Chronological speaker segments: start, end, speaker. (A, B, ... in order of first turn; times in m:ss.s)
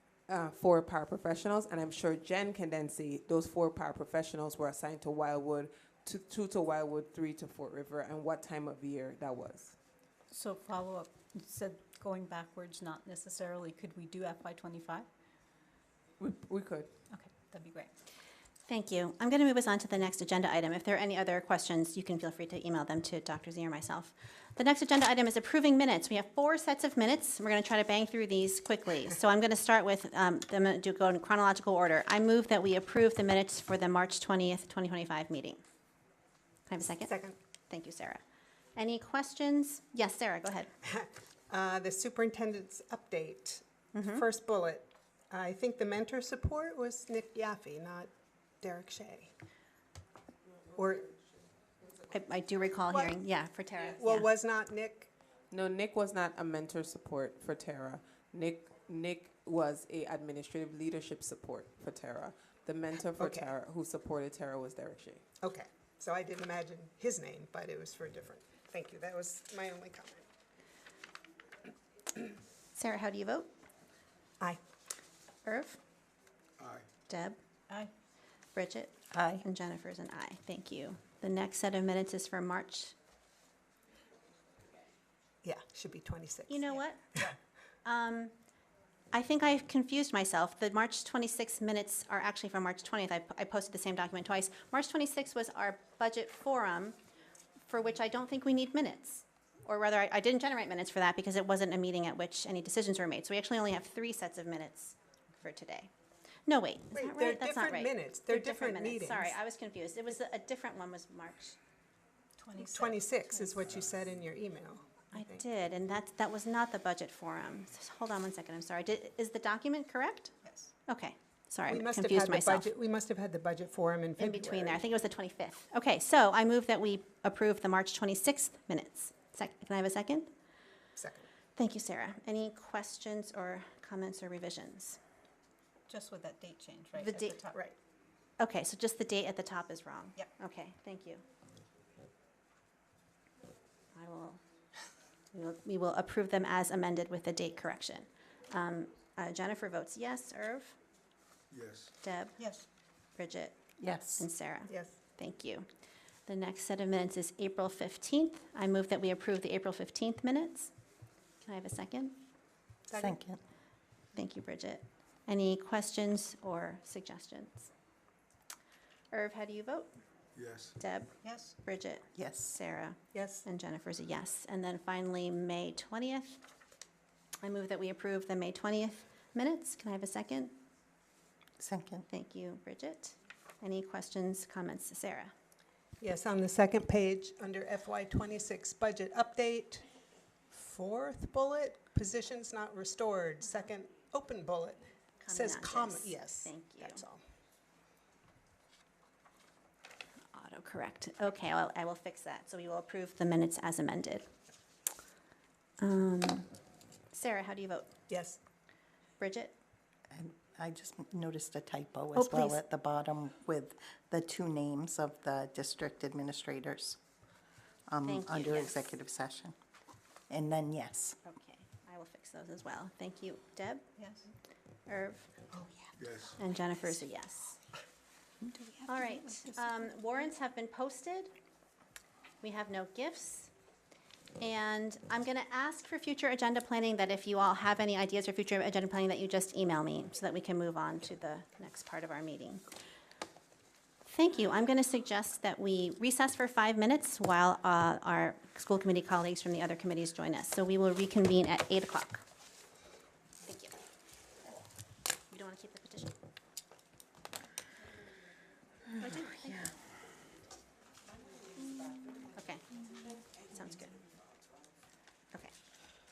0:00.3-0:09.8 A
0:10.3-0:15.1 B
0:16.2-0:16.9 A
0:17.1-0:17.9 B
0:18.7-0:35.6 C
0:36.7-0:38.2 C
0:37.1-0:37.4 D
0:38.8-0:40.7 C
0:40.8-0:48.1 D
0:43.9-0:44.2 C
0:48.6-0:49.3 D
0:50.8-0:51.1 D
0:52.1-0:54.3 C
0:54.0-0:55.1 D
0:55.5-1:05.2 A
1:03.2-1:03.5 D
1:05.4-1:10.2 D
1:12.8-1:13.5 C
1:15.4-1:15.8 C
1:16.6-1:16.9 E
1:17.1-1:17.4 C
1:18.5-1:22.9 C
1:19.1-1:19.4 F
1:25.4-1:27.4 D
1:26.5-1:27.2 C
1:27.8-1:28.3 C
1:29.1-1:37.0 C
1:37.7-1:45.9 C
1:46.5-1:51.6 C
1:46.9-1:49.4 D
1:52.4-1:53.6 B
1:52.6-1:55.4 D
1:53.6-1:54.1 E
1:55.1-2:00.3 C
2:00.4-2:00.7 B
2:00.9-2:02.7 C
2:01.7-2:04.8 D
2:04.2-2:10.3 C
2:11.0-2:11.3 D
2:11.6-2:15.0 C
2:15.9-2:17.6 B
2:17.0-2:17.4 C
2:17.2-2:17.8 D
2:18.4-2:21.2 C
2:23.9-2:24.4 C
2:25.3-2:30.8 C
2:31.5-2:31.9 E
2:32.0-2:32.4 C
2:32.4-2:32.7 B
2:33.2-2:33.6 C
2:33.8-2:34.3 F
2:34.2-2:35.7 C
2:34.7-2:35.0 D
2:36.3-2:40.7 C
2:41.4-2:42.2 C
2:42.9-2:43.2 D
2:42.9-2:43.4 F
2:44.1-2:47.7 C
2:49.1-2:49.9 C
2:50.4-2:50.8 E
2:50.8-2:56.4 C
2:51.2-2:51.6 B
2:52.2-2:52.6 F
2:53.1-2:53.4 D
2:57.4-3:00.6 C
3:01.6-3:02.1 F
3:02.1-3:05.3 C
3:06.0-3:09.8 D
3:10.5-3:17.2 D
3:15.2-3:17.0 C
3:20.3-3:24.3 C
3:25.8-3:26.5 C
3:27.1-3:27.9 C
3:28.1-3:28.4 D
3:29.2-3:29.6 C
3:30.1-3:37.0 F
3:32.2-3:32.6 C
3:37.9-3:39.6 F
3:38.0-3:38.9 C
3:40.3-3:41.2 F
3:41.2-3:43.8 C
3:44.0-3:44.3 B
3:44.9-3:45.3 C
3:45.5-3:46.0 B
3:46.0-3:46.4 E
3:46.4-3:47.6 C
3:48.4-3:50.0 B
3:48.9-3:51.3 C
3:52.4-3:53.5 C
3:54.4-4:02.6 C
4:04.1-4:12.2 C
4:13.4-4:13.8 C
4:15.3-4:16.1 C
4:18.9-4:19.7 F
4:19.0-4:19.6 C
4:22.3-4:22.8 C
4:23.5-4:24.0 C